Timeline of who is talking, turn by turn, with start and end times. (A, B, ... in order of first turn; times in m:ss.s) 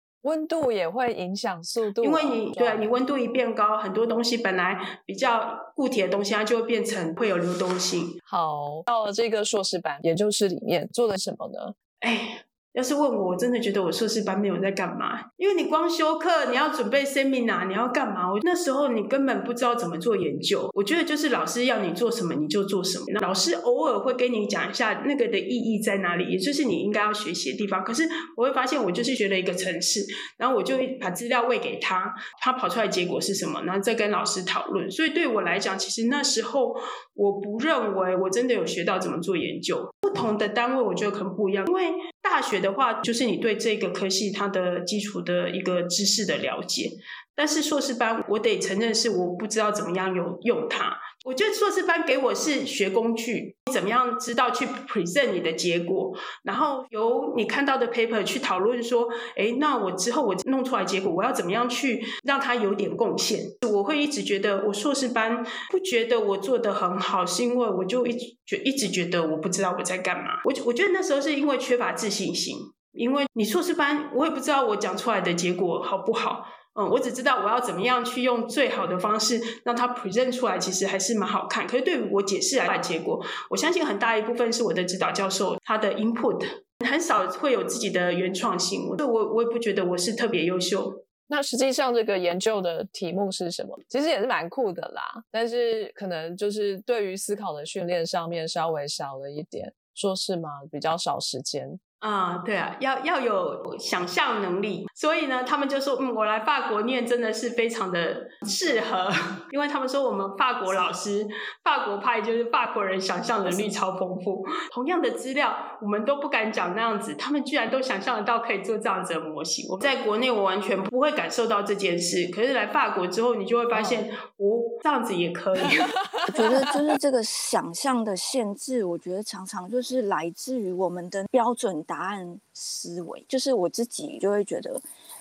0:00.2-0:02.9 A
0:02.0-0:08.2 B
0:08.3-0:11.7 A
0:12.0-1:31.0 B
1:31.3-1:41.8 A
1:42.0-2:05.9 B
2:03.7-2:04.0 A
2:05.8-2:06.7 A
2:06.3-2:14.8 C